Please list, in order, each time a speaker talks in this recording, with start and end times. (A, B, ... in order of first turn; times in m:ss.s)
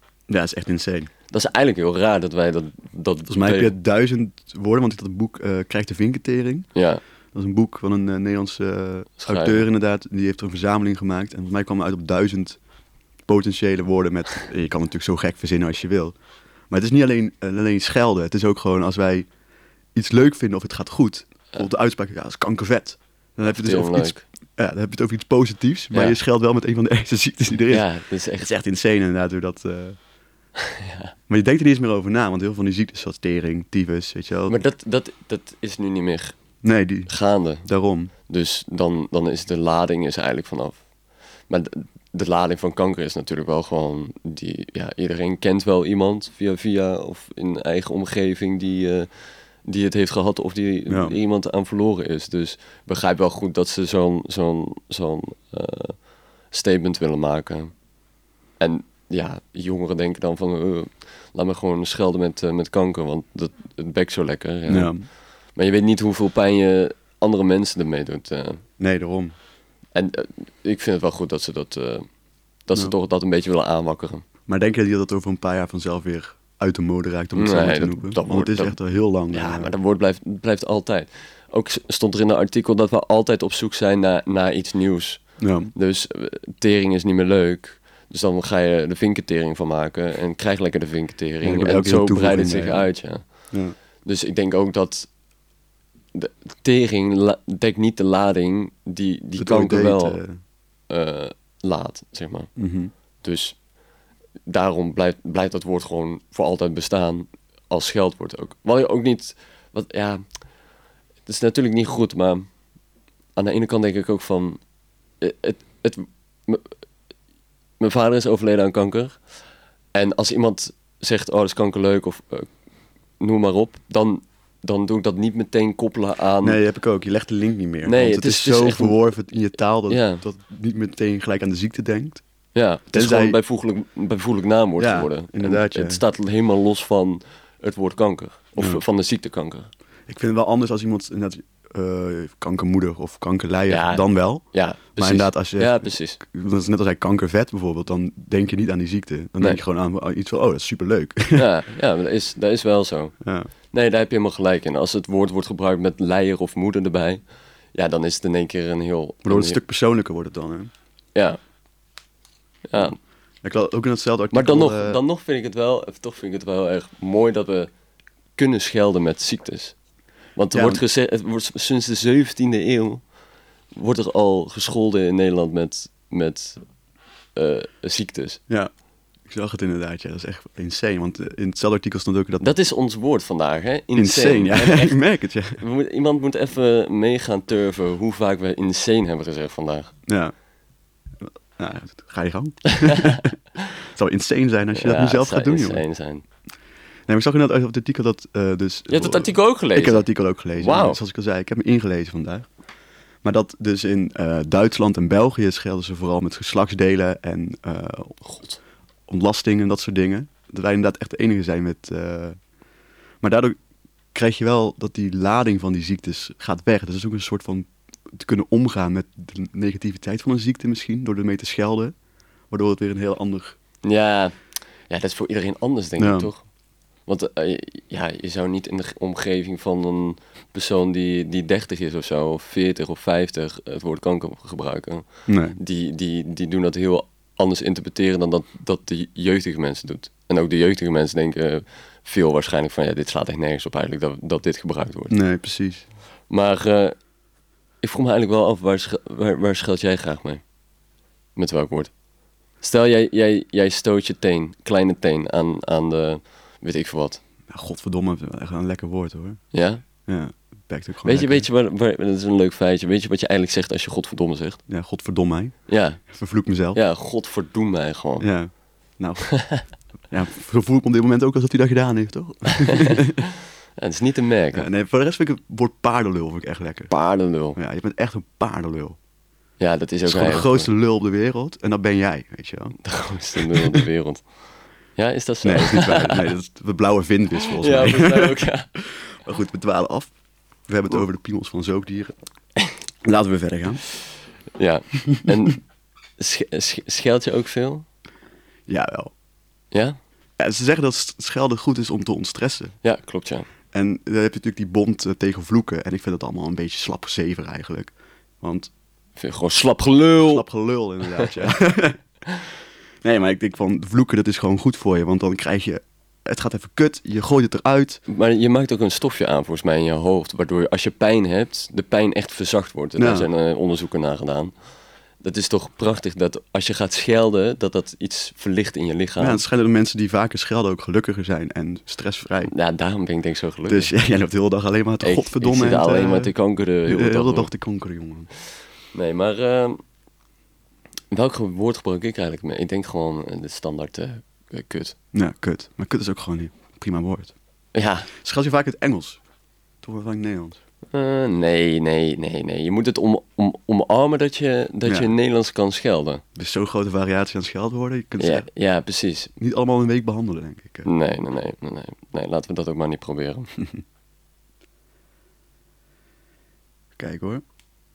0:00.3-0:01.1 A
0:01.3-0:03.7 B
0:03.3-0:06.7 A
0:06.8-0:07.0 B
0:07.3-0:12.6 A
0:09.2-0:09.7 B
0:13.3-0:16.2 A
0:16.7-0:19.3 A
0:19.9-0:30.0 A
0:23.5-0:24.2 B
0:27.7-0:28.5 B
0:30.6-0:31.1 B
0:31.3-0:34.6 A
0:34.5-0:36.4 B
0:36.6-0:37.1 A
0:37.1-0:37.7 B
0:37.6-0:38.1 A
0:38.3-0:40.8 B
0:41.5-0:49.1 B
0:49.6-0:57.7 B
0:50.9-0:51.2 A
0:58.6-1:04.9 B
1:04.7-1:05.0 A
1:05.6-1:08.6 B
1:08.8-1:09.4 A
1:10.0-1:12.1 B
1:12.7-1:14.2 B
1:14.5-1:19.7 A
1:17.4-1:18.8 B
1:19.3-1:33.5 B
1:25.4-1:25.7 A
1:31.4-1:32.9 A
1:33.5-1:33.8 A
1:34.0-1:35.1 B
1:36.2-1:40.2 B
1:39.4-1:40.4 A
1:40.9-1:42.5 B
1:42.6-1:42.9 A
1:43.2-1:43.6 B
1:44.5-1:50.2 B
1:51.3-1:52.5 B
1:53.4-1:54.6 B
1:55.2-1:56.7 B
1:57.8-1:59.2 B
1:59.9-2:02.5 B
2:03.2-2:06.6 B
2:06.4-2:12.2 A
2:07.8-2:09.0 B
2:09.9-2:10.2 B
2:12.5-2:19.7 B
2:12.9-2:13.4 A
2:14.8-2:16.0 A
2:20.1-2:31.5 A
2:23.7-2:26.2 B
2:31.3-2:33.2 B
2:33.2-2:33.5 A
2:33.7-2:37.2 B
2:37.7-2:39.6 B
2:39.2-2:40.7 A
2:42.7-2:43.0 B
2:43.4-2:45.0 A
2:44.3-2:47.7 B
2:48.4-2:49.8 B
2:50.4-2:53.0 B
2:50.5-2:50.8 A
2:53.7-2:56.6 B
2:57.4-2:58.4 B
2:59.3-3:02.5 A
3:02.4-3:05.0 B
3:04.0-3:05.6 A
3:05.5-3:10.0 B
3:10.1-3:10.3 A
3:11.2-3:15.8 A
3:12.7-3:13.2 B
3:14.8-3:16.2 B
3:17.1-3:22.5 A
3:18.9-3:21.0 B
3:23.2-3:28.2 A
3:28.3-3:28.6 B
3:29.1-3:32.4 A
3:33.2-3:33.6 A
3:34.1-3:41.9 A
3:42.5-3:43.6 A
3:43.8-3:44.4 B
3:44.9-3:46.4 B
3:46.0-3:46.3 A
3:47.1-4:05.2 B
3:55.3-3:55.6 A
4:05.1-4:05.8 A
4:06.3-4:07.0 B
4:07.8-4:10.4 B
4:11.4-4:11.9 B
4:12.6-4:17.2 B
4:17.5-4:19.4 A
4:19.5-4:19.8 B
4:20.0-4:21.5 A
4:21.0-4:24.6 B
4:24.7-4:26.8 A
4:25.7-4:26.0 B
4:26.7-4:28.3 B
4:28.2-4:29.5 A
4:29.4-4:29.6 B
4:30.1-4:33.2 A
4:32.6-4:33.2 B
4:33.8-4:34.7 B
4:34.5-4:36.9 A
4:36.9-4:37.6 B
4:37.6-4:39.0 A
4:39.6-4:40.7 B
4:40.1-4:42.8 A
4:42.8-4:44.2 B
4:43.4-4:43.8 A
4:45.0-4:46.3 B
4:45.4-4:50.1 A
4:47.6-4:48.7 B
4:50.7-4:52.1 A
4:53.0-4:53.8 A
4:54.6-4:55.6 B
4:56.2-4:57.9 B
4:58.7-4:59.1 A
4:59.7-5:00.0 B
5:00.4-5:02.7 A
5:02.8-5:03.5 B
5:03.7-5:08.7 A
5:09.2-5:10.4 B
5:10.2-5:12.0 A
5:11.1-5:11.4 B
5:13.0-5:18.0 A
5:18.1-5:24.5 B
5:23.0-5:23.3 A
5:25.2-5:29.4 B
5:29.2-5:32.5 A
5:32.4-5:33.9 B
5:33.7-5:36.3 A
5:35.0-5:37.5 B
5:36.9-5:38.3 A
5:38.9-5:39.8 B
5:41.1-5:45.0 B
5:45.1-5:47.3 A
5:47.7-5:48.1 B
5:48.1-5:49.2 A
5:49.8-5:50.6 A
5:50.9-5:56.2 B
5:54.9-5:55.1 A
5:56.4-5:58.5 A
5:58.2-5:59.3 B
5:59.4-6:00.9 A
6:00.8-6:03.5 B
6:07.0-6:07.4 A